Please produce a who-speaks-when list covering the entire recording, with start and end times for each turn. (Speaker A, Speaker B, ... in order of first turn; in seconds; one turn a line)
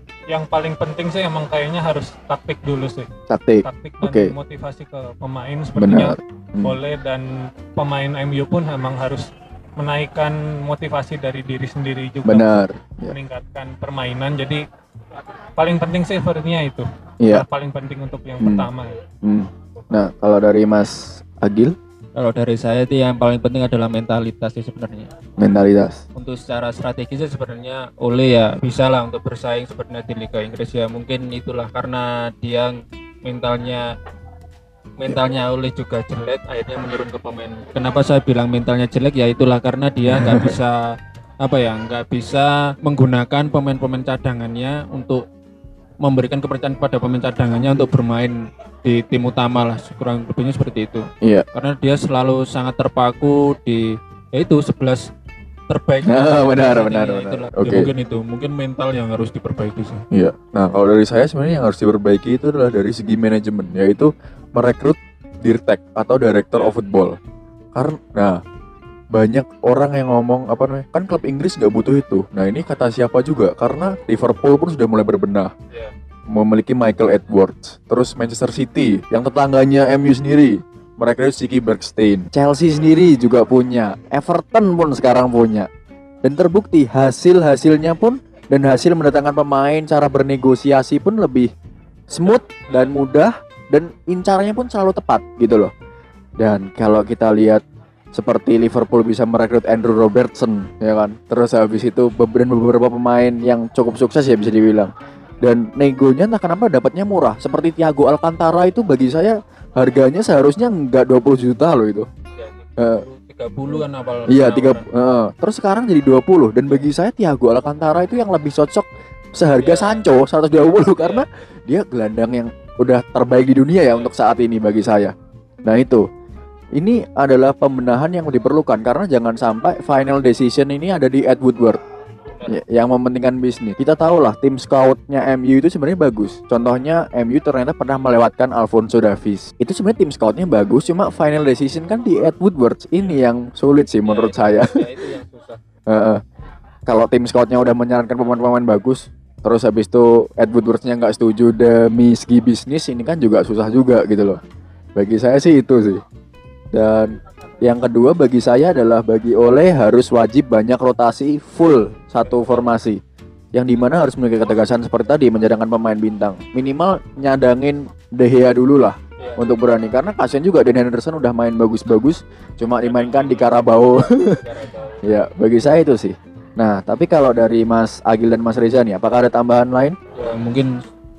Speaker A: 0.3-3.1
Speaker B: 3.3-4.3
Speaker A: 3.6-14.6
Speaker B: 5.8-6.8
Speaker B: 12.2-13.1
Speaker A: 15.6-18.9
Speaker B: 18.4-18.7
Speaker B: 19.2-21.7
Speaker C: 22.2-25.2
Speaker B: 25.4-26.0
Speaker C: 26.2-33.9
Speaker C: 35.0-40.9
Speaker B: 40.1-40.6
Speaker C: 41.4-45.2
Speaker C: 46.0-55.1
Speaker C: 55.7-60.0
Speaker B: 56.1-57.9
Speaker B: 60.1-67.2
Speaker B: 67.7-68.4
Speaker B: 69.1-75.5
Speaker B: 76.3-85.7
Speaker B: 86.2-91.5
Speaker B: 92.1-95.7
Speaker C: 92.7-92.9
Speaker B: 96.4-97.6
Speaker B: 98.1-104.9
Speaker B: 105.4-112.1
Speaker C: 112.3-114.9
Speaker B: 112.8-113.0
Speaker B: 114.3-125.1
Speaker C: 119.5-120.0
Speaker C: 121.0-121.2
Speaker B: 125.6-126.0
Speaker B: 126.7-131.8
Speaker B: 132.4-144.9
Speaker C: 144.1-145.6
Speaker B: 145.9-146.2
Speaker B: 146.9-154.4
Speaker B: 154.9-156.0
Speaker B: 156.7-163.0
Speaker C: 162.2-162.7
Speaker B: 163.5-174.4
Speaker C: 169.2-169.5
Speaker C: 172.8-175.0
Speaker B: 175.0-179.9
Speaker C: 180.1-180.8